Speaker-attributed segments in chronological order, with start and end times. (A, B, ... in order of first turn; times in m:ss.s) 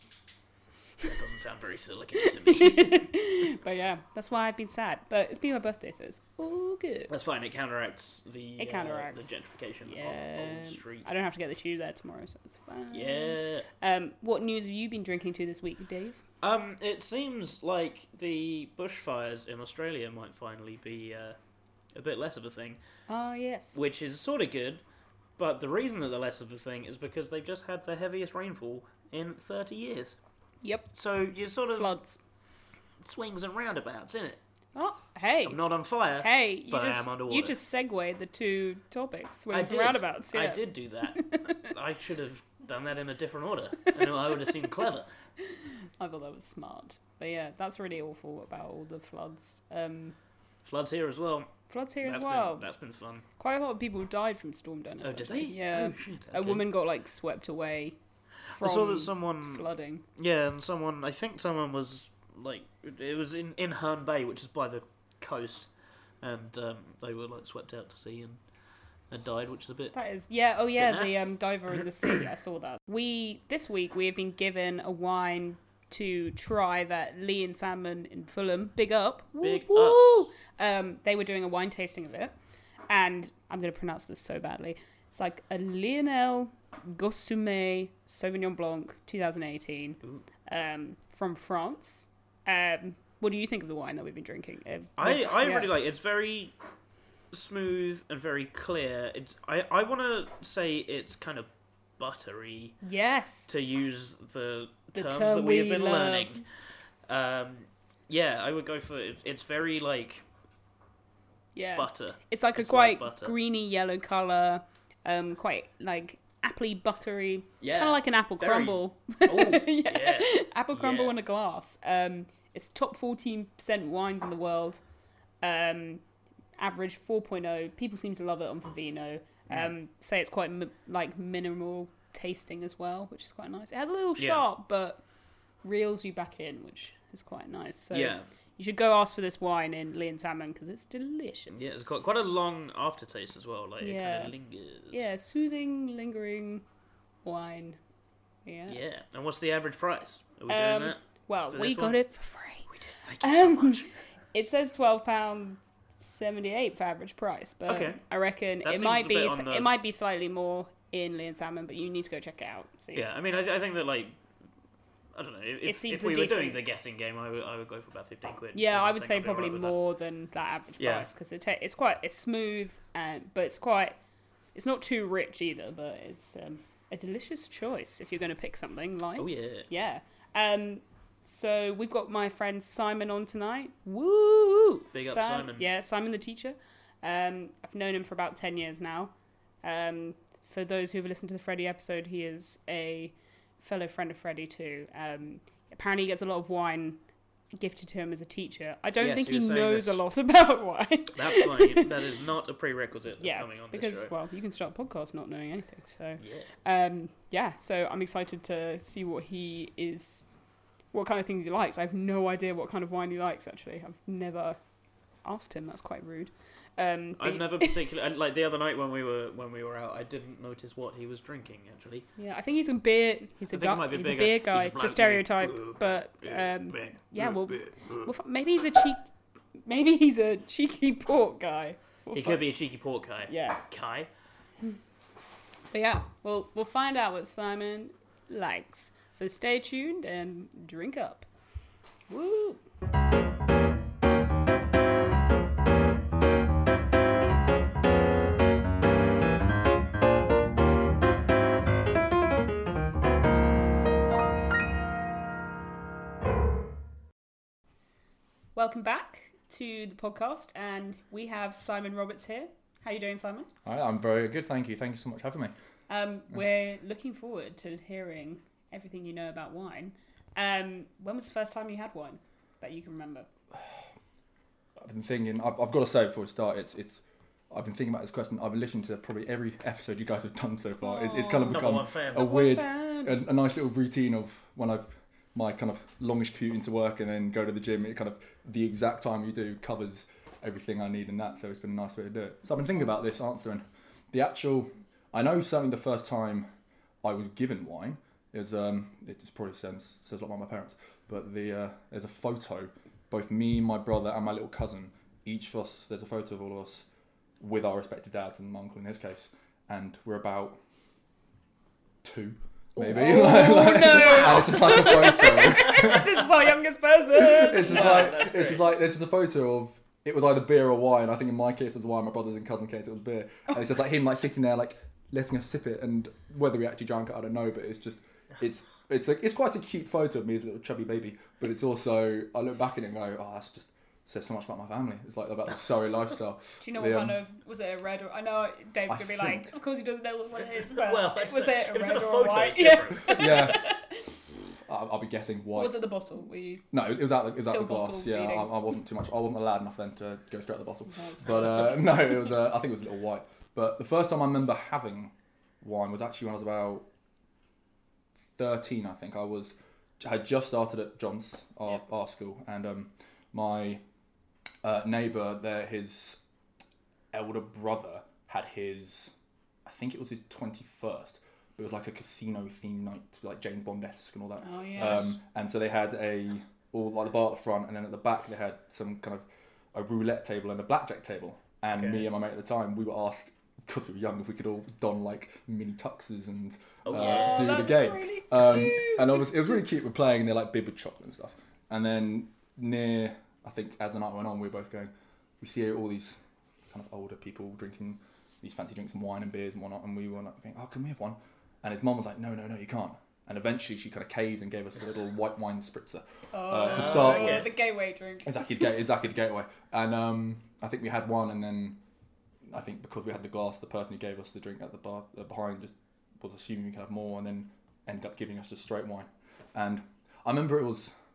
0:01.0-0:03.1 A
0:02.2-0:07.1 B
0:07.1-0:11.1 A
0:08.6-0:16.2 B
0:12.9-0:13.7 A
0:16.4-0:21.4 A
0:21.9-0:22.8 A
0:23.1-0:23.8 B
0:23.8-0:24.8 A
0:25.4-0:30.2 A
0:30.6-0:30.9 B
0:30.9-0:31.9 A
0:31.7-0:32.2 B
0:33.0-0:34.4 A
0:34.8-0:35.6 B
0:35.4-0:37.6 A
0:36.2-0:41.7 B
0:39.5-0:45.1 A
0:46.0-0:50.2 B
0:50.6-0:53.2 A
0:51.7-0:52.6 B
0:53.4-1:00.0 B
0:55.0-0:56.7 A
0:58.5-1:05.7 A
1:06.2-1:08.4 A
1:09.1-1:09.9 A
1:09.9-1:22.3 B
1:10.8-1:11.3 A
1:19.4-1:20.3 A
1:22.9-1:35.7 B
1:35.0-1:36.5 A
1:37.3-1:42.8 A
1:42.8-1:43.5 B
1:43.5-1:46.4 A
1:44.9-1:46.4 B
1:47.1-1:50.2 A
1:51.6-2:04.8 B
1:51.8-1:53.3 A
1:57.6-2:01.2 A
2:05.4-2:06.0 B
2:06.6-2:15.0 B
2:14.2-2:14.4 A
2:15.6-2:21.8 B
2:17.9-2:18.3 A
2:21.5-2:25.1 A
2:23.8-2:24.3 B
2:24.9-2:26.6 B
2:27.2-2:27.8 B
2:28.4-2:28.8 B
2:28.7-2:32.0 A
2:30.5-2:43.1 B
2:32.8-2:33.9 A
2:37.7-2:38.0 A
2:38.6-2:39.7 A
2:42.9-2:44.2 A
2:45.2-2:49.8 A
2:45.6-2:46.6 B
2:48.5-2:54.0 B
2:50.8-2:51.1 A
2:54.6-3:17.0 B
2:59.2-2:59.7 A
3:04.9-3:05.6 A
3:17.6-3:21.9 B
3:19.0-3:20.0 A
3:21.1-3:24.1 A
3:23.2-3:30.3 B
3:26.2-3:26.5 A
3:30.9-3:34.6 B
3:35.2-3:38.0 B
3:37.2-3:42.1 A
3:42.2-3:49.1 B
3:43.5-3:48.1 A
3:49.6-3:52.5 B
3:52.1-3:54.1 A
3:53.3-3:53.6 B
3:55.7-4:01.3 B
4:02.1-4:02.6 B
4:18.6-4:23.5 B
4:23.6-4:25.5 C
4:25.9-4:33.3 B
4:34.8-4:56.5 C
4:40.8-4:43.2 B
4:41.5-4:42.4 A
4:57.0-5:06.9 C
5:07.4-5:10.6 C
5:12.0-5:16.1 C
5:12.8-5:18.3 B
5:17.1-5:37.2 C
5:17.6-5:18.7 A
5:36.6-5:44.1 B
5:38.9-5:39.5 C
5:40.7-5:43.5 A
5:43.1-5:43.6 C
5:44.6-5:45.8 C
5:45.5-5:48.7 B
5:46.7-5:56.8 C
5:50.9-5:52.0 B
5:58.4-6:03.8 C
6:04.6-6:06.2 C
6:07.1-6:09.1 C
6:09.6-6:36.2 C
6:14.4-6:15.2 B
6:21.8-6:22.1 A
6:26.8-6:27.7 A
6:26.9-6:29.3 B
6:36.7-6:47.6 C
6:46.3-6:48.6 B
6:46.6-6:47.6 A
6:48.2-6:51.8 C
6:52.5-7:00.9 C